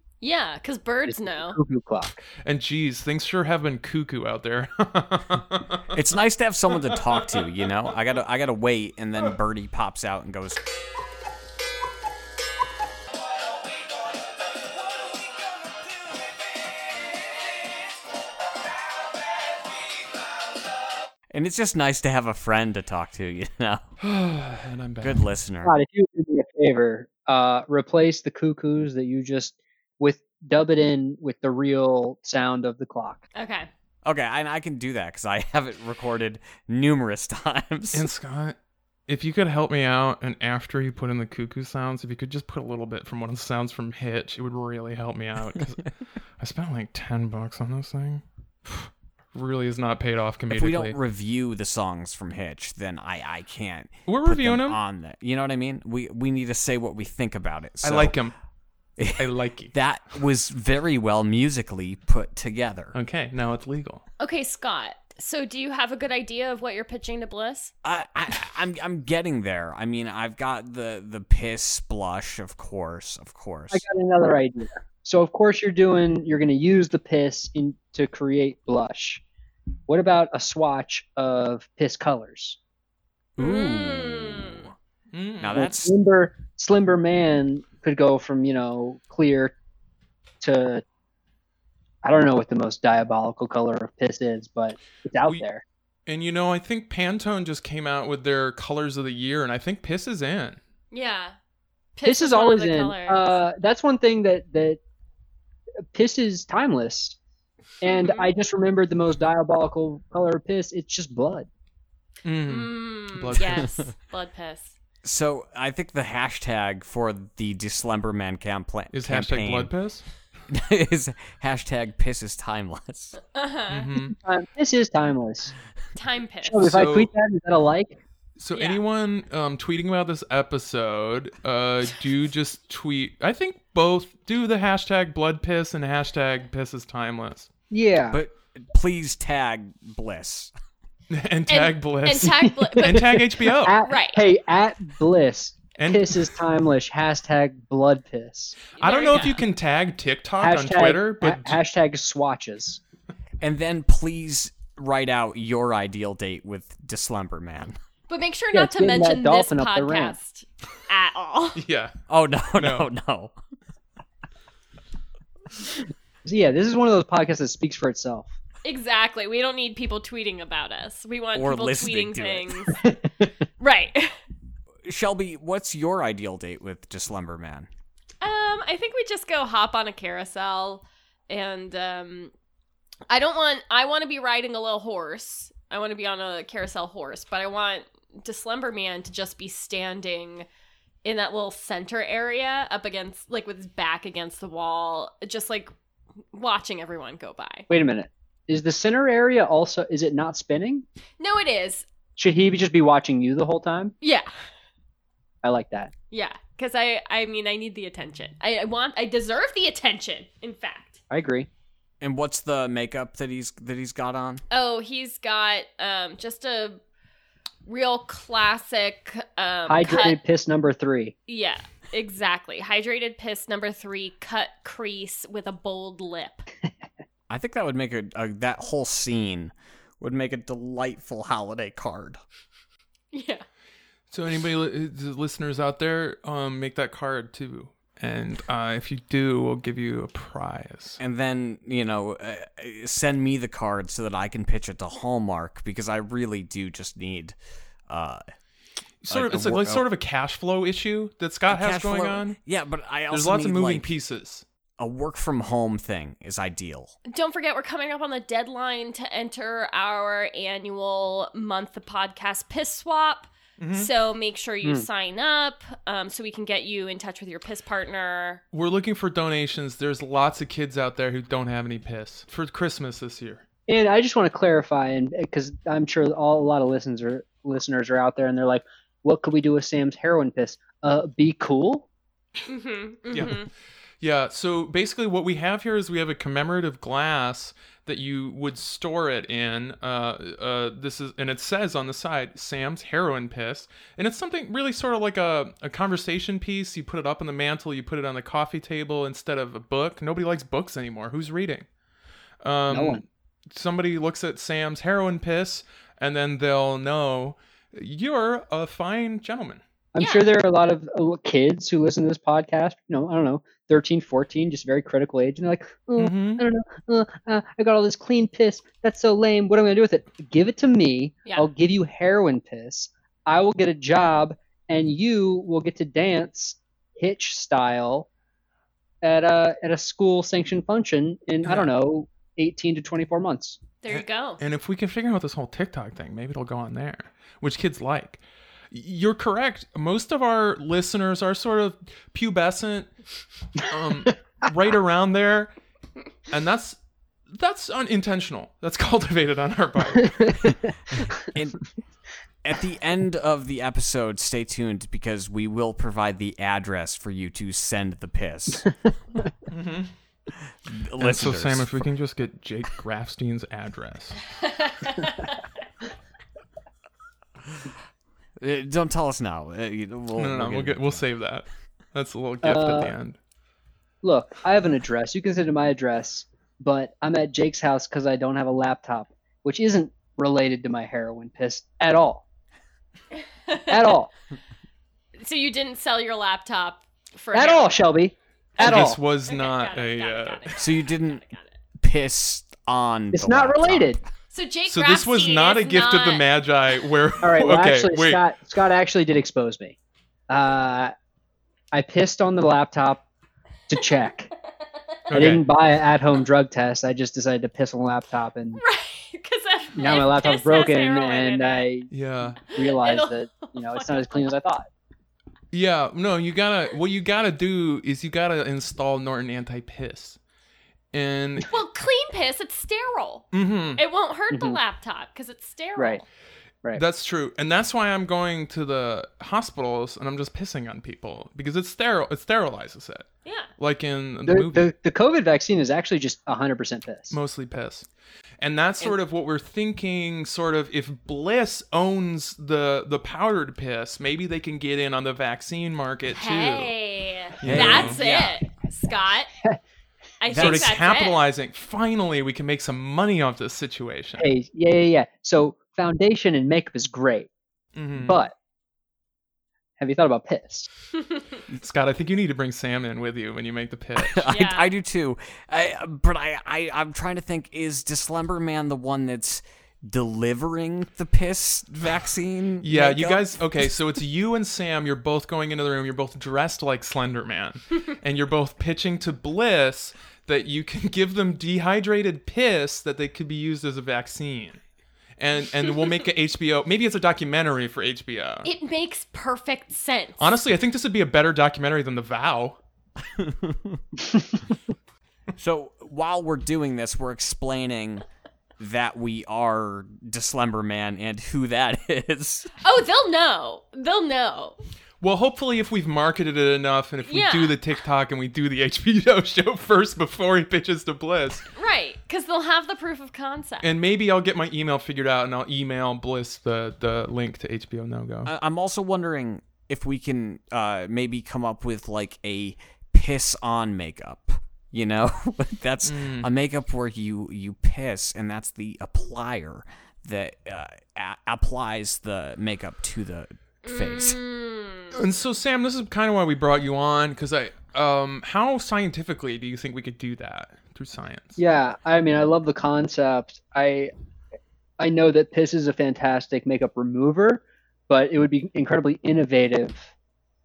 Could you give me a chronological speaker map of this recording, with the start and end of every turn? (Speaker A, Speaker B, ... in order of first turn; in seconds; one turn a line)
Speaker A: 0.2-1.6
Speaker B: 1.1-2.2
Speaker C: 2.4-5.9
Speaker D: 5.9-10.6
Speaker D: 21.3-23.9
Speaker C: 24.0-25.3
Speaker D: 25.0-25.7
Speaker B: 25.6-33.2
Speaker A: 33.4-33.7
Speaker D: 34.0-38.1
Speaker C: 37.9-38.6
Speaker C: 39.1-51.0
Speaker D: 50.5-58.1
Speaker C: 54.1-54.8
Speaker C: 57.8-58.3
Speaker D: 59.0-63.0
Speaker C: 59.2-59.7
Speaker C: 62.9-64.0
Speaker A: 64.2-67.7
Speaker D: 67.8-73.9
Speaker B: 73.7-79.2
Speaker B: 79.9-82.6
Speaker D: 83.4-84.7
Speaker A: 83.4-84.7
Speaker C: 85.1-85.6
Speaker D: 85.4-85.9
Speaker B: 85.6-89.5
Speaker B: 90.4-90.8
Speaker B: 92.0-95.6
Speaker C: 96.1-100.6
Speaker A: 100.9-101.4
Speaker A: 102.0-103.4
Speaker B: 102.0-104.8
Speaker B: 105.9-107.2
Speaker B: 107.8-111.5
Speaker A: 107.8-108.3
Speaker C: 112.2-113.8
Speaker A: 112.4-114.8
Speaker D: 115.0-119.7
Speaker C: 118.9-120.0
Speaker D: 120.5-123.2
Speaker A: 123.3-123.9
Speaker C: 123.7-124.2
Speaker B: 124.0-125.5
Speaker A: 126.0-126.7
Speaker B: 126.4-128.0
Speaker C: 126.6-127.1
Speaker C: 128.4-137.5
Speaker A: 128.5-128.8
Speaker B: 137.7-138.2
Speaker D: 138.1-140.5
Speaker C: 141.1-143.8
Speaker A: 141.5-143.2
Speaker B: 142.4-148.6
Speaker A: 143.8-144.2
Speaker C: 145.8-146.3
Speaker A: 148.8-149.4
Speaker C: 148.8-151.6
Speaker B: 150.4-152.8
Speaker D: 153.4-157.8
Speaker A: 158.1-161.6
Speaker B: 158.5-160.2
Speaker C: 161.6-161.9
Speaker D: 162.1-163.3
Speaker C: 162.6-162.9
Speaker B: 166.2-168.3
Speaker A: 168.6-172.8
Speaker D: 171.3-172.7
Speaker A: 173.6-174.2
Speaker D: 174.9-177.7
Speaker A: 178.2-182.3
Speaker A: 183.1-190.5
Speaker A: 191.0-195.7
Speaker A: 196.3-197.7
Speaker B: 197.7-200.8
Speaker A: 201.2-201.9
Speaker B: 202.2-203.9
Speaker A: 204.0-204.3
Speaker B: 205.4-205.9
Speaker A: 206.1-211.0
Speaker B: 211.1-211.5
Speaker D: 212.0-214.4
Speaker A: 214.5-216.8
Speaker A: 217.7-220.2
Speaker B: 219.7-221.1
Speaker A: 221.3-226.5
Speaker D: 227.3-232.2
Speaker A: 233.1-233.4
Speaker C: 234.1-241.0
Speaker D: 241.0-247.3
Speaker D: 247.9-248.2
Speaker C: 249.0-252.4
Speaker D: 249.1-249.9
Speaker D: 251.5-253.9
Speaker C: 253.1-254.4
Speaker D: 254.8-256.9
Speaker A: 257.1-268.4
Speaker C: 263.6-263.9
Speaker C: 268.5-273.4
Speaker B: 273.7-281.9
Speaker A: 282.5-283.5
Speaker C: 283.1-283.5
Speaker C: 284.0-301.7
Speaker C: 302.4-309.6
Speaker B: 302.7-303.0
Speaker B: 309.9-328.1
Speaker A: 310.0-310.3
Speaker C: 316.0-316.4
Speaker B: 329.0-333.6
Speaker C: 331.4-331.7
Speaker A: 333.8-334.4
Speaker C: 333.9-342.9
Speaker C: 343.6-345.5
Speaker C: 346.3-346.8
Speaker C: 347.3-350.5
Speaker B: 350.2-350.6
Speaker D: 351.3-351.6
Speaker D: 352.4-358.7
Speaker C: 359.5-359.9
Speaker D: 360.7-361.7
Speaker C: 361.0-364.2
Speaker A: 364.4-365.4
Speaker D: 368.4-371.1
Speaker C: 370.2-373.2
Speaker B: 372.4-372.9
Speaker B: 374.0-382.3
Speaker A: 383.5-384.0
Speaker B: 383.7-384.1
Speaker A: 385.2-387.8
Speaker B: 387.3-389.0
Speaker A: 388.6-391.6
Speaker C: 388.6-390.5
Speaker D: 390.6-391.2
Speaker D: 391.8-394.1
Speaker B: 393.1-394.0
Speaker A: 394.3-396.3
Speaker C: 394.7-398.2
Speaker B: 397.2-399.8
Speaker B: 400.3-400.9
Speaker B: 401.7-403.1
Speaker B: 403.7-404.3
Speaker C: 405.1-405.4
Speaker B: 405.1-408.6
Speaker A: 408.6-411.7
Speaker B: 409.8-414.7
Speaker C: 411.9-412.4
Speaker A: 412.5-414.3
Speaker C: 415.5-420.2
Speaker C: 420.9-421.6
Speaker A: 421.5-426.1
Speaker C: 423.3-423.8
Speaker B: 424.3-424.6
Speaker B: 425.8-426.0
Speaker C: 426.8-434.7
Speaker A: 433.2-433.5
Speaker B: 434.3-437.2
Speaker C: 437.1-437.9
Speaker C: 438.4-446.7
Speaker A: 446.1-449.3
Speaker C: 447.4-448.4
Speaker D: 447.4-448.1
Speaker A: 450.2-451.2
Speaker D: 450.3-450.7
Speaker C: 450.3-454.3
Speaker B: 454.2-457.3
Speaker C: 457.8-458.2
Speaker B: 458.0-458.3
Speaker B: 459.8-460.7
Speaker C: 461.5-464.3
Speaker D: 464.0-473.4
Speaker A: 464.3-464.7
Speaker C: 472.6-484.6
Speaker C: 485.2-488.5
Speaker A: 488.4-490.4
Speaker C: 490.2-492.6
Speaker D: 493.1-493.8
Speaker D: 495.4-498.1
Speaker D: 498.6-502.5
Speaker A: 502.6-504.6
Speaker C: 505.0-511.5
Speaker A: 507.1-507.6
Speaker A: 511.6-513.7
Speaker C: 513.6-518.3
Speaker D: 518.3-534.2
Speaker C: 525.8-526.3
Speaker A: 533.6-535.0
Speaker C: 534.9-541.4
Speaker B: 541.4-543.9
Speaker B: 544.8-549.9